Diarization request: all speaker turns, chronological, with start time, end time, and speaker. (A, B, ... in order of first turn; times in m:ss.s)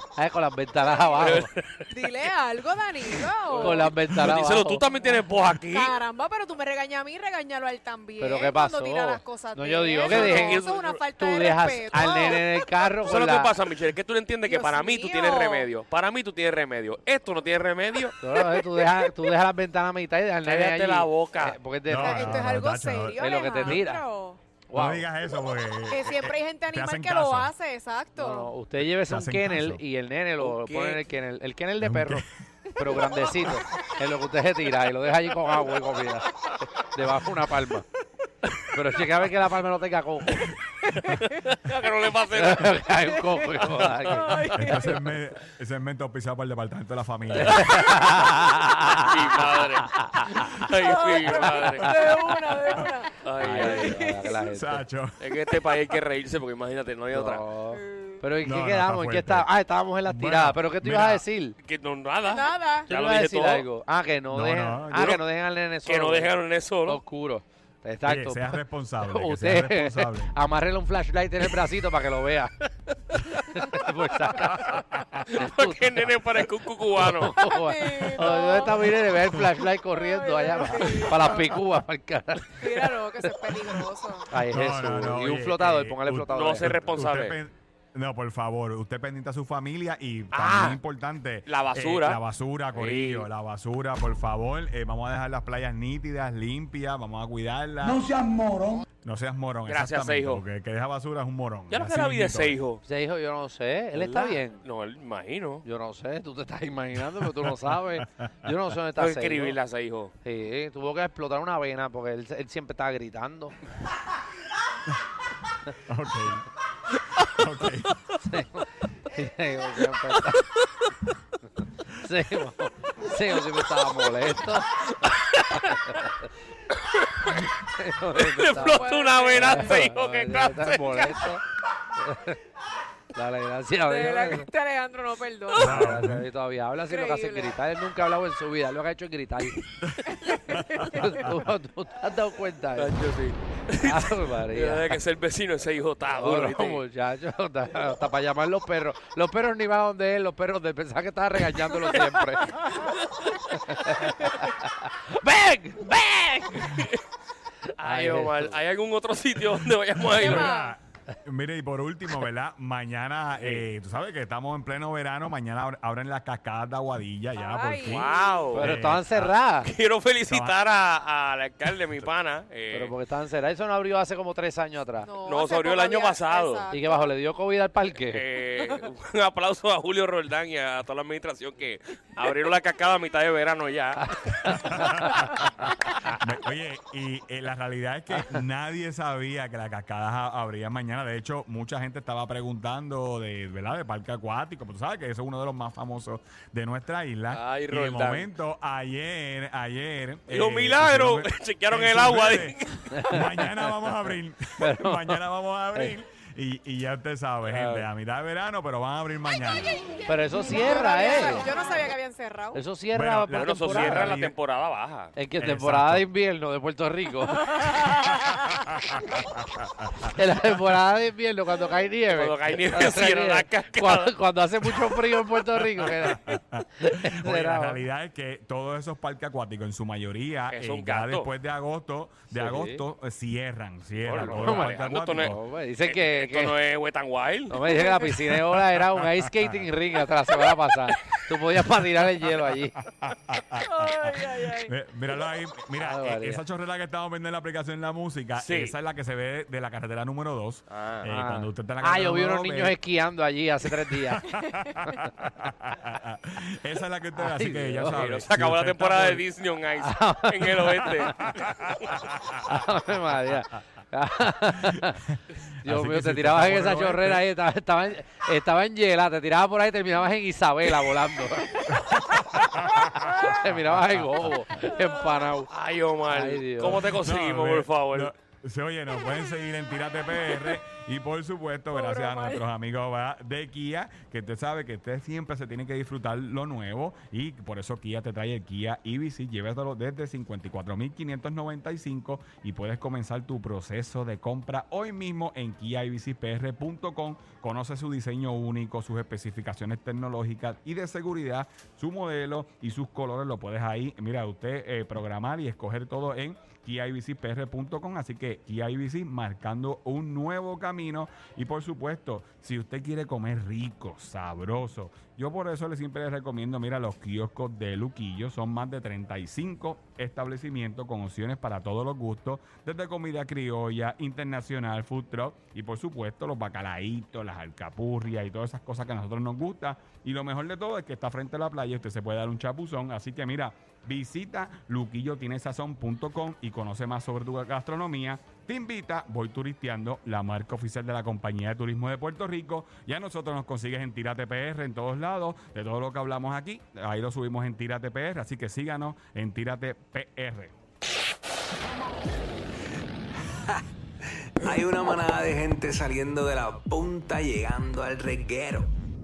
0:00.2-0:01.5 A
0:00.8-0:03.9 B
0:01.2-0:02.2 C
0:03.4-0:06.0 C
0:03.6-0:04.8 A
0:05.0-0:12.5 B
0:08.2-0:10.6 A
0:10.0-0:11.0 C
0:11.2-0:13.5 A
0:13.0-0:18.9 C
0:14.5-0:15.7 B
0:18.2-0:22.5 A
0:20.4-0:21.6 C
0:21.9-0:23.8 D
0:22.0-0:24.4 B
0:23.2-0:24.0 A
0:24.7-0:25.1 A
0:24.7-0:27.5 D
0:25.9-0:28.5 B
0:28.2-0:32.3 A
0:28.8-0:29.8 D
0:30.4-0:31.0 C
0:31.8-0:32.3 D
0:32.8-0:37.9 A
0:32.8-0:33.3 B
0:38.7-0:40.6 A
0:40.9-0:44.1 C
0:42.3-0:44.9 A
0:43.3-0:45.2 B
0:44.4-0:47.9 D
0:47.3-0:48.4 C
0:47.5-0:49.1 A
0:48.9-0:54.0 C
0:49.9-0:50.5 A
0:50.8-0:54.4 B
0:51.4-0:52.2 A
0:53.4-0:54.8 A
0:54.5-0:55.3 D
0:55.2-0:57.4 C
0:57.1-1:01.6 A
0:57.7-0:58.2 B
0:58.4-0:59.5 D
1:00.0-1:01.2 D
1:01.6-1:03.7 C
1:02.3-1:02.9 B
1:02.9-1:12.6 A
1:04.3-1:05.1 D
1:04.9-1:05.2 C
1:05.8-1:07.0 C
1:08.0-1:10.4 D
1:13.2-1:16.2 A
1:14.6-1:15.0 D
1:15.2-1:17.4 C
1:17.0-1:26.8 A
1:17.4-1:19.0 B
1:19.9-1:21.6 B
1:22.6-1:24.3 B
1:24.5-1:38.2 D
1:26.3-1:27.4 C
1:30.3-1:30.8 C
1:31.5-1:32.2 C
1:32.7-1:33.3 C
1:39.0-1:42.6 D
1:39.7-1:40.4 C
1:41.7-1:42.8 C
1:42.8-1:44.6 A
1:43.9-1:45.6 C
1:45.6-1:49.6 A
1:47.4-1:48.5 D
1:49.0-1:50.1 C
1:50.2-1:53.5 A
1:55.8-1:56.5 D
1:57.2-1:58.0 D
1:58.2-2:00.5 A
2:01.9-2:06.0 A
2:05.6-2:06.0 C
2:06.9-2:07.4 C
2:07.3-2:11.4 A
2:08.2-2:11.2 C
2:08.7-2:09.8 B
2:12.0-2:12.4 A
2:13.1-2:14.5 A
2:13.9-2:15.8 B
2:15.6-2:16.0 C
2:15.6-2:19.6 A
2:15.6-2:16.3 D
2:16.9-2:17.5 B
2:19.8-2:21.3 D
2:20.1-2:21.1 B
2:20.6-2:22.9 A
2:22.8-2:26.8 C
2:23.8-2:24.9 A
2:26.1-2:32.8 A
2:32.6-2:33.4 C
2:33.4-2:36.8 A
2:36.5-2:37.0 C
2:37.8-2:40.5 C
2:37.8-2:38.6 A
2:40.1-2:49.3 D
2:40.2-2:40.8 B
2:43.4-2:43.6 C
2:47.4-2:48.5 B
2:47.9-2:48.8 C
2:48.5-2:49.7 A
2:49.6-2:53.0 C
2:50.3-2:50.6 D
2:52.7-2:55.1 A
2:55.0-2:57.1 B
2:55.2-2:56.7 C
2:56.7-2:58.3 A
2:58.1-3:05.4 C
3:04.5-3:29.8 D
3:04.6-3:04.9 A
3:17.3-3:18.3 C
3:20.3-3:23.1 C
3:23.0-3:23.8 A
3:24.6-3:25.2 A
3:27.5-3:27.8 C
3:30.1-3:31.5 A
3:30.5-3:32.6 B
3:32.5-3:34.2 A
3:32.9-3:34.4 D
3:33.3-3:35.1 C
3:35.2-3:37.8 A
3:35.4-3:36.1 D
3:37.5-3:38.4 B
3:37.9-3:39.9 D
3:40.0-3:47.8 A
3:42.1-3:44.2 C
3:45.7-3:55.4 D
3:50.5-3:51.3 C
3:52.3-3:52.8 A
3:54.0-3:57.6 C
3:54.2-3:56.6 A
3:57.5-4:02.8 A
3:57.8-3:58.1 B
3:58.2-3:59.6 D
4:02.9-4:12.8 D
4:03.6-4:04.7 B
4:05.8-4:06.4 A
4:08.4-4:08.8 C
4:10.7-4:11.1 C
4:11.1-4:14.3 A
4:14.1-4:19.3 D
4:17.2-4:18.2 A
4:17.8-4:22.0 C
4:19.8-4:21.3 A
4:21.1-4:22.6 D
4:22.4-4:25.0 A
4:24.5-4:27.2 D
4:25.6-4:31.8 A
4:31.7-4:34.3 D
4:33.0-4:35.5 A
4:35.5-4:38.1 C
4:36.1-4:36.8 A
4:37.0-5:50.5 D
4:41.7-4:42.4 B
5:54.4-5:58.7 E